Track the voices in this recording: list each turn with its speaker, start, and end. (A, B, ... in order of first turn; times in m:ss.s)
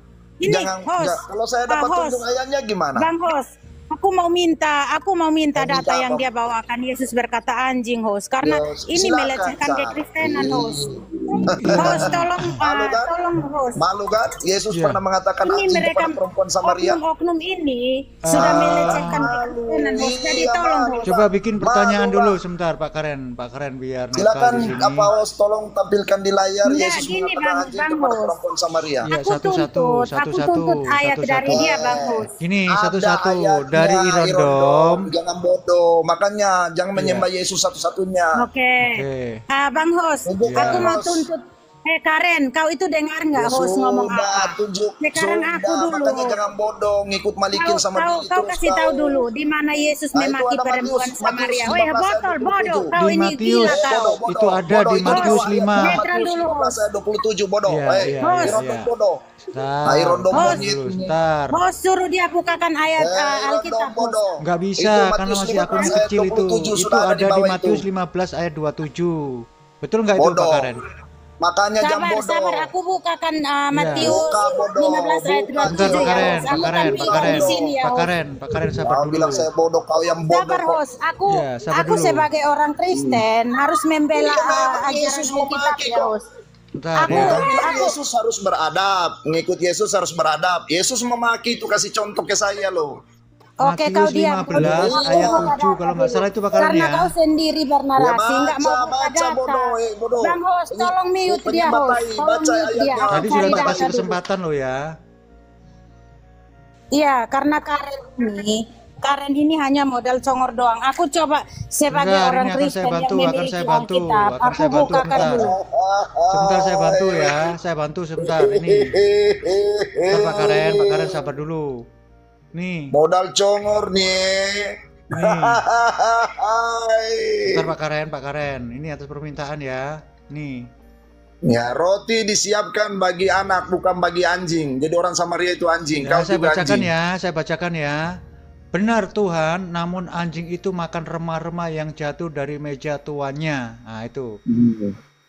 0:00.4-0:02.2 A
0:00.4-0:03.1 B
0:03.0-0:10.8 A
0:05.6-0:06.2 B
0:08.4-0:13.1 B
0:11.4-0:13.8 A
0:11.4-0:12.5 C
0:13.8-0:17.0 B
0:14.7-0:15.0 C
0:15.4-0:21.1 A
0:18.3-0:19.3 C
0:18.3-0:22.4 B
0:21.0-0:25.1 C
0:24.2-0:29.1 B
0:26.6-0:28.4 A
0:29.0-0:31.7 C
0:29.1-0:32.3 A
0:31.5-0:32.2 B
0:32.3-0:35.1 C
0:32.7-0:38.4 B
0:37.0-0:37.3 C
0:38.4-0:46.4 A
0:38.9-0:39.4 C
0:40.3-0:41.2 B
0:40.5-0:41.0 C
0:43.4-0:49.2 B
0:47.5-0:54.2 A
0:50.1-0:53.0 B
0:53.0-0:56.1 C
0:53.7-0:59.2 B
0:55.1-0:56.8 A
0:57.7-0:58.9 C
0:58.2-0:58.6 A
0:59.5-1:01.6 C
0:59.9-1:01.1 B
1:00.4-1:00.6 A
1:01.5-1:04.2 A
1:03.0-1:07.8 B
1:04.4-1:10.8 C
1:10.2-1:10.7 B
1:11.4-1:12.7 B
1:11.8-1:18.1 A
1:13.7-1:14.2 C
1:14.0-1:17.8 B
1:15.7-1:19.5 C
1:18.8-1:20.8 B
1:20.3-1:26.3 A
1:21.3-1:22.3 C
1:22.9-1:23.2 B
1:24.2-1:26.1 B
1:26.8-1:27.5 C
1:27.0-1:27.9 A
1:27.1-1:33.0 B
1:33.6-1:44.2 A
1:33.6-1:37.1 C
1:34.6-1:35.5 B
1:38.0-1:44.1 B
1:43.1-1:44.9 C
1:46.9-1:55.5 A
1:51.9-1:55.5 C
1:54.8-1:57.4 B
1:56.3-1:59.0 C
1:58.2-2:01.2 B
2:00.1-2:01.8 C
2:02.5-2:02.9 C
2:02.9-2:07.7 B
2:05.2-2:05.6 C
2:07.5-2:10.7 C
2:11.5-2:16.9 B
2:16.0-2:18.0 C
2:18.7-2:24.3 C
2:24.5-2:25.0 B